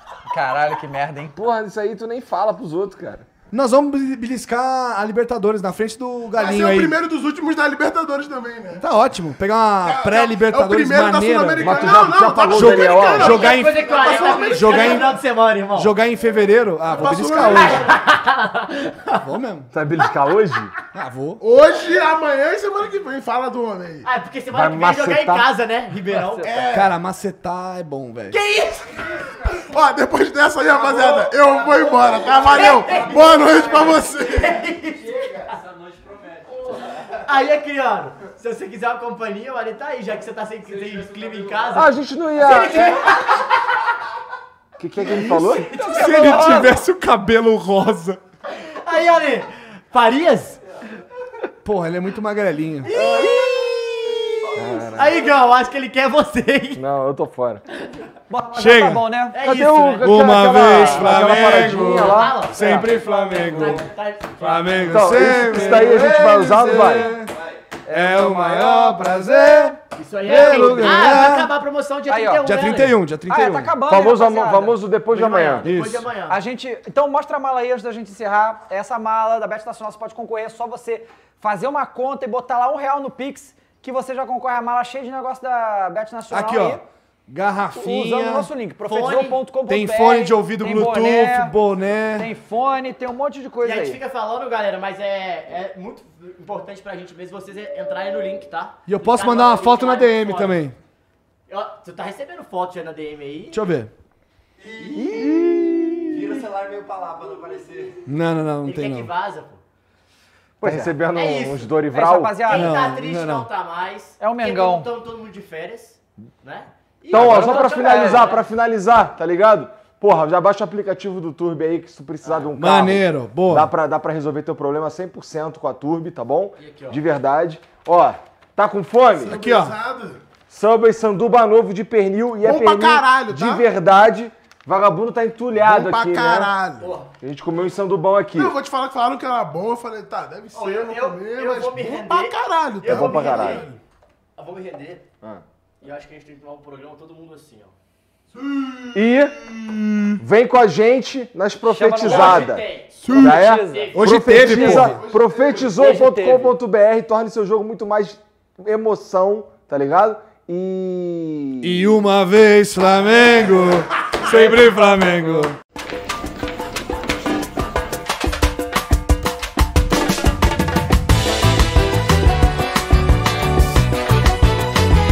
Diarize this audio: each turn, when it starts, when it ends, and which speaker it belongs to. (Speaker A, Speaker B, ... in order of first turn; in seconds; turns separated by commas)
Speaker A: 0.3-1.4, Speaker B: 1.3-3.2, Speaker C: 3.5-7.0, Speaker D: 6.3-8.8, Speaker C: 8.8-15.1, Speaker D: 9.8-15.2, Speaker B: 11.6-13.5, Speaker E: 13.0-15.9, Speaker C: 15.7-17.9, Speaker D: 16.9-17.9, Speaker E: 17.3-19.2, Speaker C: 19.1-19.7, Speaker B: 19.7-20.7, Speaker C: 20.9-21.4, Speaker D: 21.4-24.1, Speaker E: 24.0-26.7, Speaker B: 24.5-25.5, Speaker A: 26.2-26.5, Speaker D: 26.4-27.0, Speaker C: 26.7-28.4, Speaker E: 28.3-28.8, Speaker D: 29.6-34.6, Speaker F: 30.6-37.2, Speaker E: 32.3-35.5, Speaker E: 37.1-43.5, Speaker F: 40.6-41.8, Speaker B: 41.7-43.1, Speaker B: 44.8-45.7, Speaker E: 45.0-46.7, Speaker C: 45.7-48.2, Speaker E: 48.5-50.6, Speaker C: 51.6-52.9, Speaker E: 52.9-54.2, Speaker B: 52.9-53.3, Speaker F: 53.1-53.5, Speaker F: 54.0-55.6, Speaker B: 54.5-55.2, Speaker E: 54.9-56.8, Speaker B: 56.8-57.6, Speaker A: 58.3-59.4, Speaker C: 58.5-59.0, Speaker E: 59.3-65.6, Speaker B: 59.4-62.4, Speaker C: 60.0-63.9, Speaker A: 62.9-63.8, Speaker C: 64.4-67.3, Speaker B: 64.9-67.1, Speaker F: 66.9-67.6, Speaker A: 67.8-69.3, Speaker C: 67.9-71.5, Speaker E: 69.9-73.0, Speaker A: 70.4-70.8, Speaker A: 72.1-74.8, Speaker C: 72.4-73.8, Speaker B: 73.9-75.7, Speaker E: 75.1-76.4, Speaker C: 75.6-76.1, Speaker A: 76.3-86.8, Speaker C: 86.3-88.5, Speaker A: 87.7-91.5, Speaker E: 88.8-89.4, Speaker C: 89.7-92.3, Speaker A: 92.2-94.0, Speaker E: 93.6-100.6, Speaker C: 98.8-100.7, Speaker E: 101.5-103.6, Speaker C: 103.5-103.9, Speaker F: 104.6-108.0, Speaker C: 104.8-106.5, Speaker C: 108.0-109.1, Speaker E: 108.6-109.6, Speaker C: 110.6-110.9, Speaker B: 110.6-112.4, Speaker E: 111.1-111.7, Speaker A: 111.9-112.7, Speaker E: 112.5-118.4, Speaker C: 112.5-113.5, Speaker A: 114.2-114.9, Speaker A: 117.1-118.3, Speaker B: 117.1-129.3, Speaker E: 122.2-122.5, Speaker C: 122.5-123.7, Speaker E: 126.6-127.0, Speaker D: 129.2-130.2, Speaker C: 129.2-129.8, Speaker B: 130.5-136.5, Speaker D: 132.4-133.6, Speaker D: 135.6-136.9, Speaker E: 136.8-137.1, Speaker B: 137.2-138.6, Speaker D: 138.3-143.8, Speaker E: 140.5-143.8, Speaker B: 142.8-143.6, Speaker E: 144.3-145.0, Speaker E: 145.8-147.7, Speaker D: 148.3-149.1, Speaker B: 148.9-149.3, Speaker B: 150.2-162.0, Speaker A: 151.6-152.5, Speaker E: 152.0-154.8, Speaker D: 153.0-153.3, Speaker A: 153.1-153.9, Speaker C: 153.9-155.0, Speaker D: 154.3-155.9, Speaker A: 155.6-156.6, Speaker C: 161.6-165.5, Speaker A: 164.2-165.5